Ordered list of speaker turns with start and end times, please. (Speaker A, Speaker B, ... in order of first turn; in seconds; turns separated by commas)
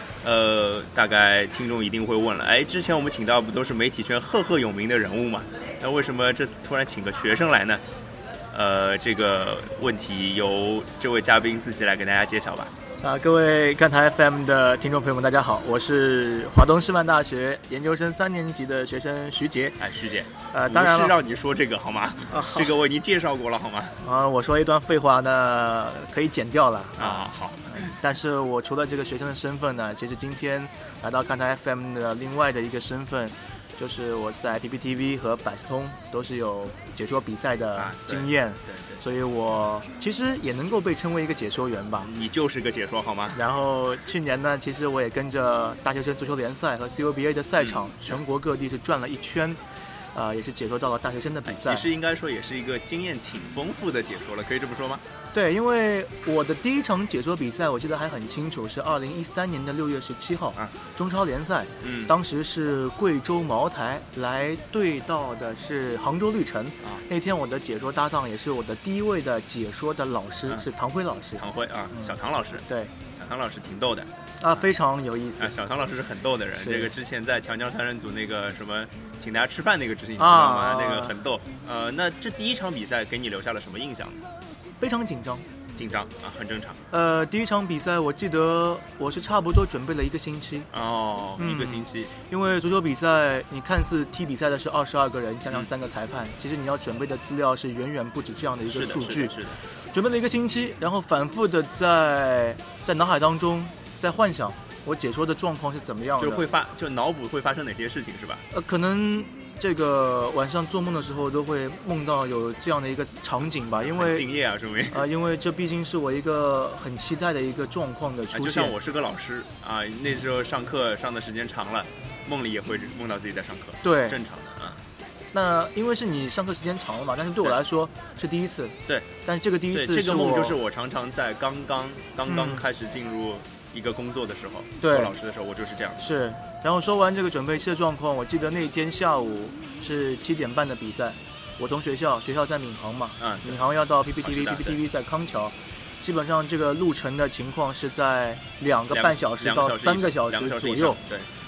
Speaker A: 0.2-7.8, Speaker A: 8.5-12.7, Speaker B: 13.0-19.8, Speaker A: 19.8-24.0, Speaker B: 20.5-21.1, Speaker B: 22.3-22.7, Speaker B: 24.0-42.1, Speaker A: 27.0-27.9, Speaker A: 37.8-39.0, Speaker A: 42.0-43.4, Speaker B: 43.3-51.9, Speaker A: 47.6-48.2, Speaker A: 51.5-55.0, Speaker B: 55.3-72.9, Speaker A: 61.8-62.1, Speaker A: 71.4-74.6, Speaker B: 74.4-75.5, Speaker A: 75.4-84.2, Speaker B: 76.6-76.9, Speaker B: 80.2-81.2, Speaker B: 84.8-85.5, Speaker A: 85.8-86.8, Speaker B: 86.9-90.7, Speaker A: 90.7-92.1, Speaker B: 91.4-99.4, Speaker A: 98.7-99.6, Speaker B: 99.9-106.5, Speaker A: 106.2-108.5, Speaker B: 108.5-114.2, Speaker A: 113.8-115.0, Speaker B: 114.9-118.7, Speaker A: 118.3-124.8, Speaker B: 123.8-124.2, Speaker B: 125.3-130.6, Speaker A: 129.7-136.0, Speaker B: 132.3-132.6, Speaker B: 134.8-135.1, Speaker B: 136.0-151.0, Speaker A: 143.2-143.6, Speaker A: 144.2-144.8, Speaker A: 148.9-151.3